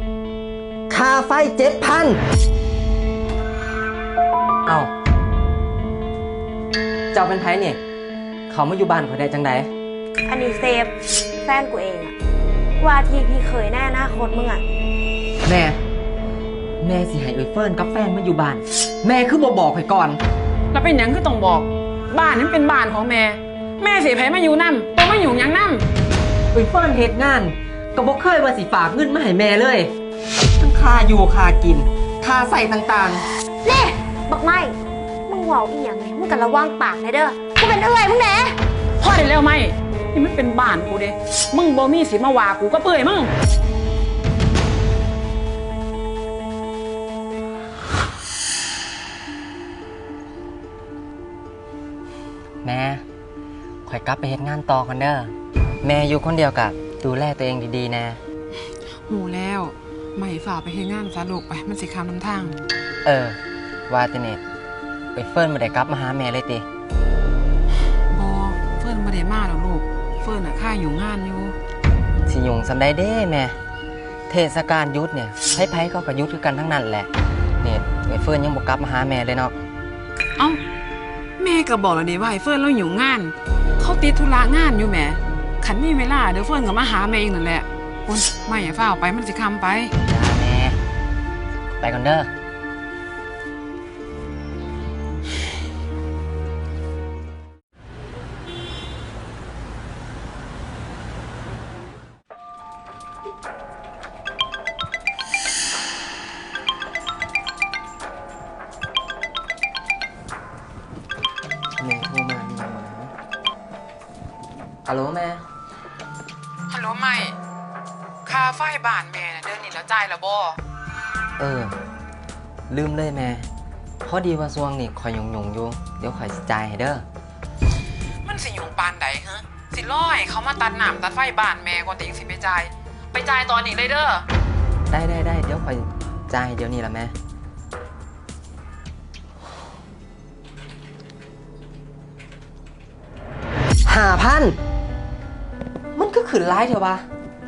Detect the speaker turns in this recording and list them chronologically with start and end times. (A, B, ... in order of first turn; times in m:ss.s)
0:00.9-0:02.2 A
0:04.6-0:04.9 A
0:07.1-0:07.8 A
0:08.5-0:09.7 A
0:10.2-0:12.1 B
0:12.8-0:14.6 B
0:15.4-0:15.8 A
0:16.8-0:20.2 A
0:20.7-0:25.8 C
0:26.5-0:29.9 A
0:30.6-0:33.2 A
0:33.6-0:38.6 B
0:39.0-0:43.3 C
0:52.6-0:53.0 A
0:53.8-0:55.3 A
0:55.8-0:58.2 A
0:59.1-1:02.6 C
1:03.0-1:04.4 A
1:05.1-1:06.6 A
1:08.1-1:11.5 C
1:12.3-1:13.5 A
1:14.3-1:17.1 A
1:17.6-1:19.6 A
1:21.4-1:29.9 C
1:30.0-1:30.8 A
1:31.8-1:32.3 A
1:51.8-1:53.1 A
1:54.8-1:55.4 A
1:56.7-1:57.4 C
1:58.2-2:00.6 C
2:01.4-2:01.7 A
2:02.7-2:03.5 A
2:04.0-2:07.0 A
2:08.2-2:14.2 C
2:14.9-2:17.1 A
2:23.8-2:24.6 A
2:25.9-2:27.0 A